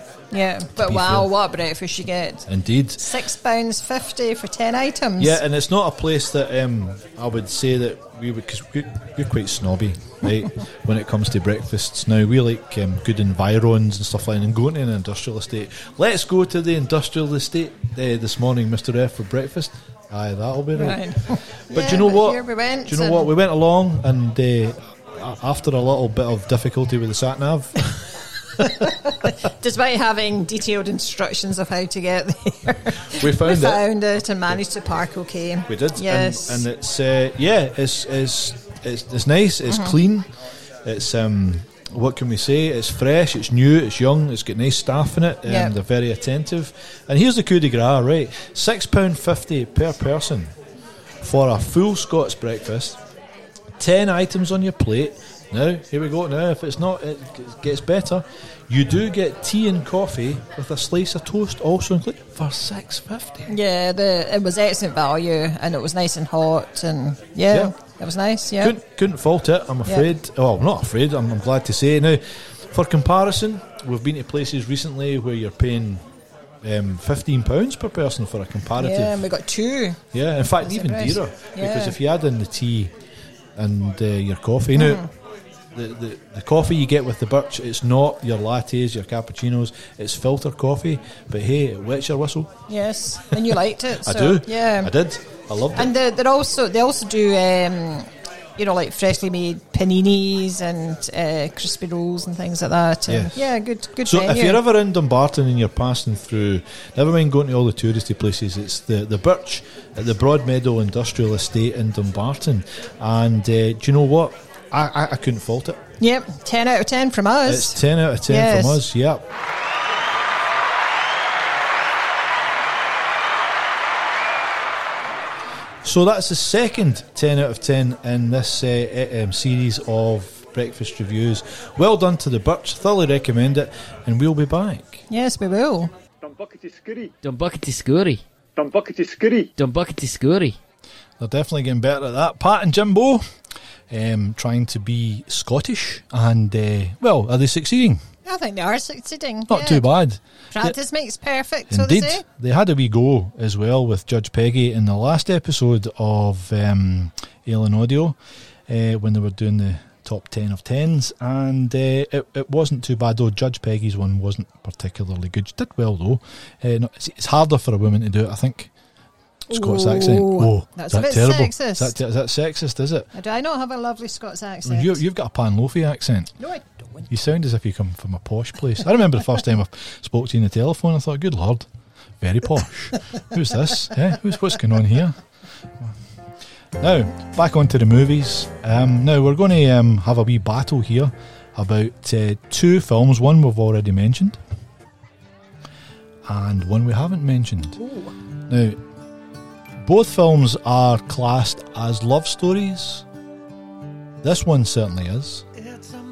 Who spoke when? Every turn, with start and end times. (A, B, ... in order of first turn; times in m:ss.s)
0:00.3-0:02.5 A
0:00.8-0:01.3 B
0:02.5-0:03.1 B
0:03.0-0:05.4 A
0:05.2-0:28.6 B
0:20.8-0:23.3 A
0:28.6-0:36.7 A
0:33.1-0:33.8 B
0:35.7-0:40.3 B
0:39.7-0:40.0 A
0:40.8-0:50.6 B
0:45.4-0:45.7 A
0:51.2-0:53.0 B
0:53.8-1:03.5 B
1:03.5-1:08.8 A
1:07.5-1:07.7 B
1:08.6-1:16.0 B
1:16.6-1:19.2 B
1:18.8-1:20.0 A
1:20.1-1:22.9 B
1:20.6-1:22.0 A
1:23.6-1:25.0 B
1:24.8-1:25.1 A
1:25.7-1:32.5 B
1:32.7-1:34.9 A
1:33.3-1:35.9 B
1:35.8-1:44.6 A
1:43.1-1:43.5 B
1:44.0-1:55.8 B
1:56.0-1:58.8 A
1:57.4-1:59.3 B
2:05.8-2:15.0 B
2:15.1-2:15.9 A
2:16.2-2:17.2 C
2:17.2-2:18.2 D
2:18.6-2:19.5 C
2:19.6-2:20.6 D
2:21.2-2:23.2 B
2:23.9-2:28.0 B
2:28.2-2:29.9 A
2:29.5-2:30.8 B
2:30.5-2:32.2 A
2:31.7-2:38.2 B
2:38.7-2:48.7 B
2:49.5-2:53.1 B
2:49.5-2:52.0 A
2:53.1-2:55.0 A
2:54.6-2:56.4 B
2:56.4-2:57.1 A
2:57.1-3:01.7 B
3:02.2-3:05.2 B
3:06.8-3:14.4 B
3:16.3-3:17.8 B
3:17.8-3:18.1 A
3:18.5-3:18.8 B
3:19.8-3:23.1 B
3:24.2-3:25.5 B